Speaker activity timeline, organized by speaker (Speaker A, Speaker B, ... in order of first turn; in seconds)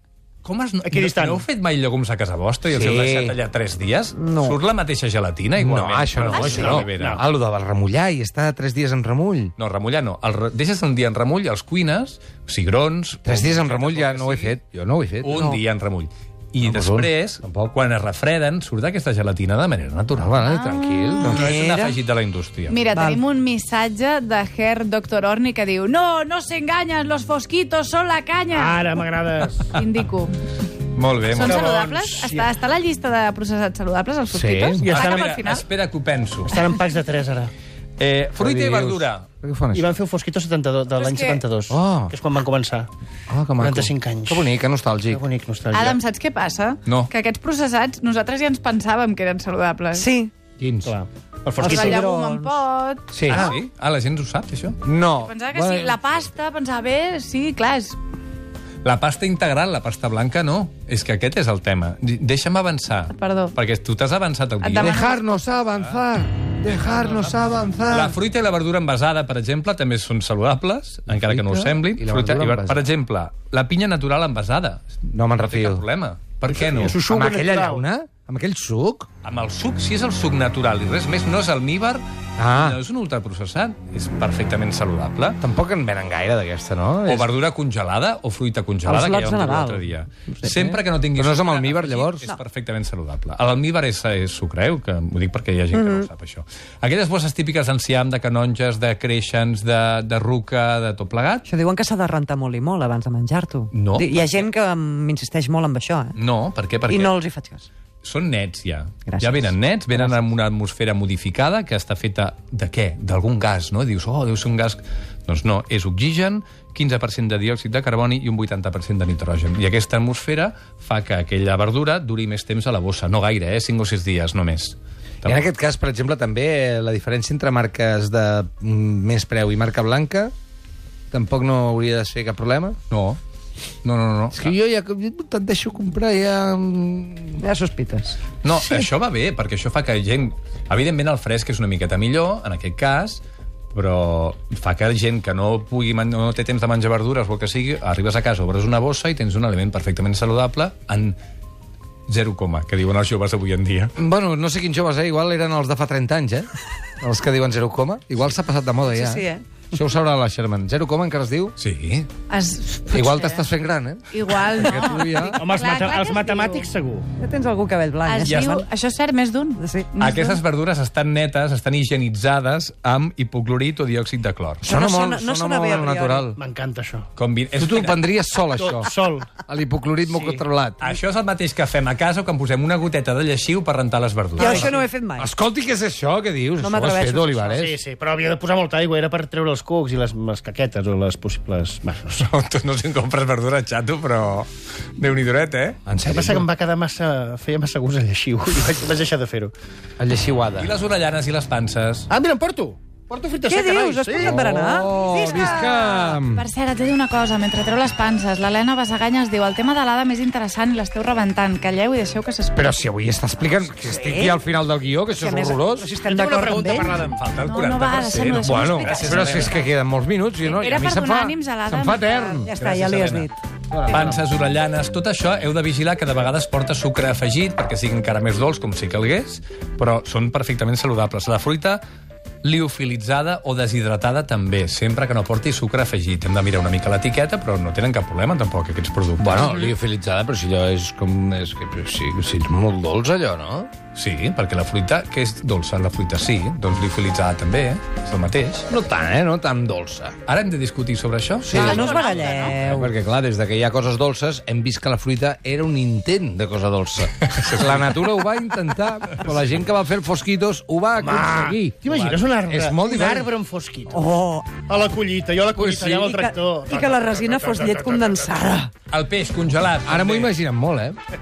Speaker A: 0.4-7.2, 9.6-14.6, 15.2-20.6, 21.2-22.8, 30.9-31.7, 34.9-36.6, 38.0-39.3, 46.9-47.1, 53.2-54.8, 58.8-65.1, 65.7-66.0, 66.7-77.0, 79.2-82.0, 82.5-85.4, 87.0-101.5, 103.7-104.5, 106.2-107.1, 108.0-125.4, 132.9-133.2, 133.8-134.5, 138.4-143.2, 143.7-151.2, 152.1-153.9, 161.6-162.1, 168.2-168.6, 170.0-174.7, 177.2-178.0, 180.8-184.7, 192.2-195.8, 200.6-202.1, 217.0-219.7, 222.6-223.3, 223.8-231.8, 232.4-239.7, 243.9-248.7, 250.2-252.0, 257.2-258.1, 261.9-262.2, 268.9-270.3
Speaker B: 0.8-1.4, 6.3-7.2, 28.5-29.7, 31.4-32.5, 36.5-37.5, 39.7-42.9, 43.6-46.0, 50.8-52.0, 76.5-77.8, 165.3-167.1, 176.3-177.1, 178.6-179.3, 184.4-184.8, 187.5-192.3, 196.1-199.5, 202.1-204.5, 216.0-217.2, 261.0-264.0, 264.6-268.3
Speaker C: 2.7-3.4, 5.6-9.5, 13.2-15.3, 16.6-17.1, 20.2-21.5, 34.3-34.9, 38.4-39.9, 41.7-42.1, 43.3-45.2, 50.6-50.9, 53.1-53.5, 54.8-56.0, 64.7-68.2, 71.1-72.9, 75.1-75.8, 76.7-79.1, 82.4-82.8, 85.4-87.3, 91.2-92.2, 125.2-130.3, 131.1-132.8, 134.3-137.4, 154.0-156.5, 157.0-161.5, 162.9-165.4, 174.6-176.4, 177.6-180.8, 185.2-187.8, 195.8-196.5, 200.0-200.7, 204.2-206.5, 212.5-215.9, 218.4-222.5, 223.7-224.2, 239.2-243.7, 248.7-250.1, 251.5-251.9, 252.6-261.8, 262.5-263.3, 269.8-271.0
Speaker D: 4.2-4.6, 15.3-15.6, 20.9-22.0, 22.9-23.2, 49.9-50.3, 51.6-52.6, 88.8-89.9, 90.4-90.7, 95.7-96.1, 101.5-106.2, 106.9-107.7, 109.0-110.2, 137.4-138.2, 158.9-159.4, 167.2-168.7, 169.6-169.9, 174.6-176.3, 184.4-185.3, 186.6-187.6, 203.4-206.1, 213.8-214.4, 215.1-217.0, 222.4-223.3, 251.5-252.9, 263.9-264.6, 265.9-268.7
Speaker E: 22.7-28.9, 29.7-30.3, 31.3-35.6, 41.0-41.4, 45.7-50.1, 51.6-53.5, 55.2-58.0, 63.1-63.5, 64.6-65.3, 162.3-163.4, 164.1-166.6, 168.1-170.4, 205.0-212.8, 217.4-219.7, 220.4-222.5, 251.5-252.6